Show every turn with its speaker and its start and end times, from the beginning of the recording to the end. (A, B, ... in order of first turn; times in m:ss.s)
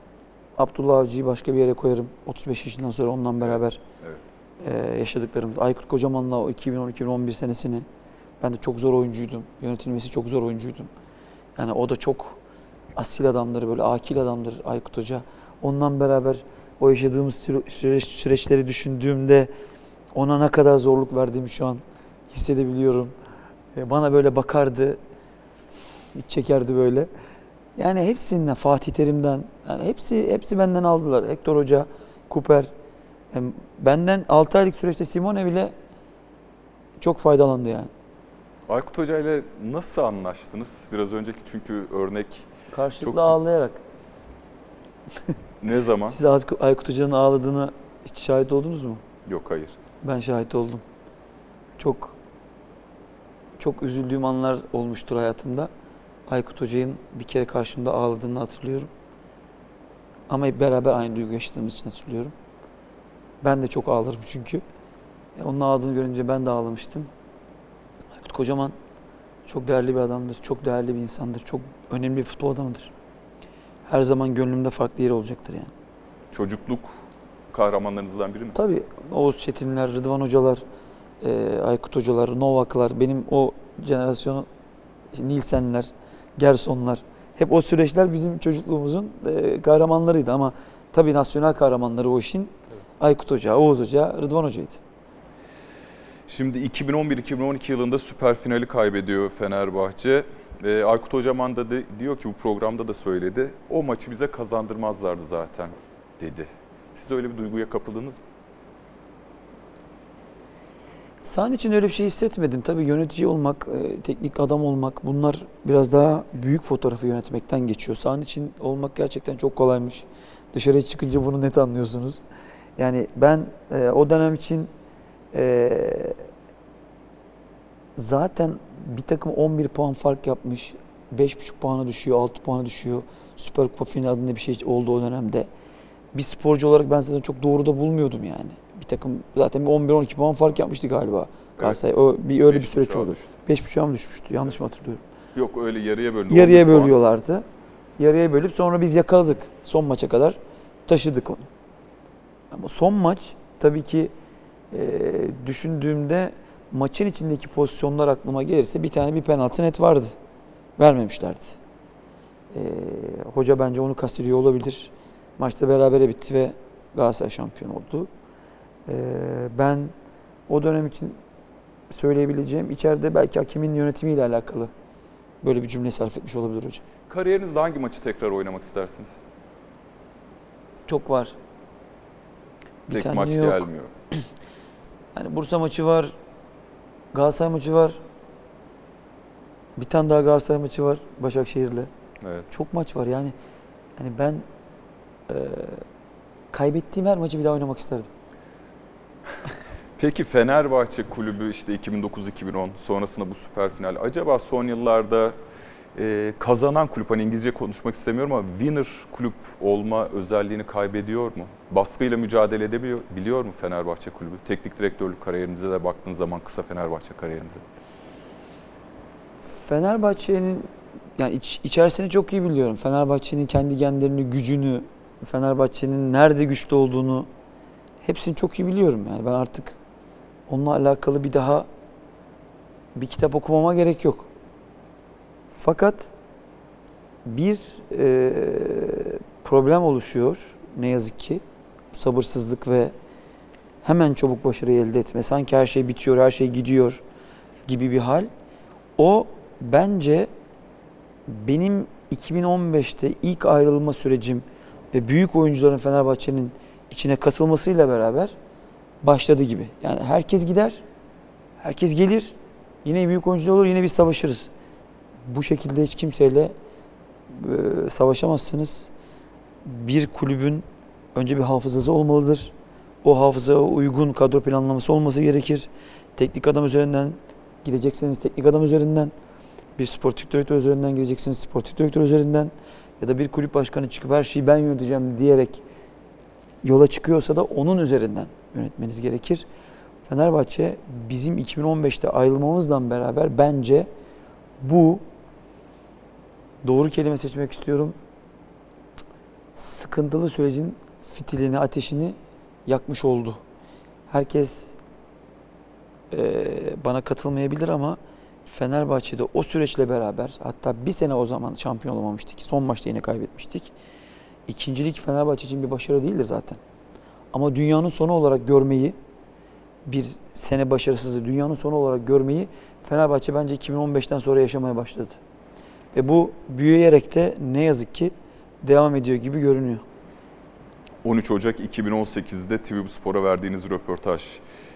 0:00.6-0:03.8 A
0:03.4-0:04.2 B
0:04.6-0:07.8 A
0:08.4-0:10.9 A
0:11.6-0:12.4 A
0:13.0-0:19.5 A
0:20.1-0:23.1 A
0:23.7-0:25.0 A
0:26.1-0:27.1 A
0:27.8-0:32.7 A
0:33.3-0:35.7 A
0:37.0-0:37.9 A
0:38.7-0:42.5 B
0:42.7-0:43.8 A
0:43.0-0:43.4 B
0:45.6-0:46.2 B
0:46.1-0:49.0 A
0:49.2-0:49.8 B
0:50.0-0:50.8 A
0:51.8-0:52.2 A
0:53.6-0:55.7 A
0:56.3-0:58.9 A
1:00.3-1:02.3 A
1:03.4-1:04.6 A
1:05.4-1:07.1 A
1:08.1-1:08.7 A
1:09.4-1:12.9 A
1:13.8-1:15.7 A
1:16.3-1:17.0 B
1:17.5-1:18.6 B
1:18.5-1:20.6 A
1:21.2-1:24.5 A
1:25.1-1:34.8 A
1:36.3-1:48.2 B
1:51.2-2:02.2 A
2:02.8-2:04.7 A
2:05.3-2:06.2 A
2:08.0-2:15.5 A
2:16.1-2:25.0 A
2:22.5-2:23.3 B
2:25.3-2:26.9 B
2:26.3-2:27.4 A
2:28.0-2:31.5 A
2:32.5-2:34.1 A
2:34.7-2:40.1 A
2:40.8-2:41.6 A
2:42.5-2:48.1 A
2:48.9-2:49.9 A
2:50.5-2:51.2 A
2:51.9-2:54.7 A
2:55.4-2:56.8 A
2:57.1-2:59.2 B
3:00.9-3:01.3 A
3:02.9-3:03.6 A
3:02.9-3:03.9 B
3:05.1-3:06.1 A
3:07.1-3:08.0 A
3:09.8-3:11.9 A
3:12.2-3:12.5 B
3:12.5-3:13.3 A
3:14.0-3:14.4 A
3:15.3-3:15.8 A
3:16.5-3:18.1 A
3:20.0-3:25.4 B
3:26.0-3:37.6 B
3:39.5-3:47.3 A
3:48.0-3:49.8 A
3:50.5-3:51.7 A
3:52.9-3:54.3 A
3:55.5-3:56.1 A
3:57.2-4:01.4 A
4:01.9-4:02.9 A
4:03.8-4:07.0 A
4:07.6-4:08.3 A
4:09.0-4:10.3 A
4:11.3-4:18.4 A
4:19.0-4:20.8 A
4:21.6-4:24.5 A
4:25.3-4:26.5 A
4:27.3-4:28.9 A
4:29.6-4:30.6 A
4:31.1-4:39.1 A
4:39.8-4:45.6 A
4:46.6-4:49.5 A
4:50.1-4:53.9 A
4:54.6-4:55.0 A
4:56.6-4:58.0 A
4:59.5-5:03.4 A
5:04.1-5:04.7 A
5:06.1-5:13.7 A
5:14.5-5:16.6 A
5:17.3-5:19.0 A
5:19.8-5:25.2 A
5:25.9-5:29.8 A
5:31.0-5:34.4 B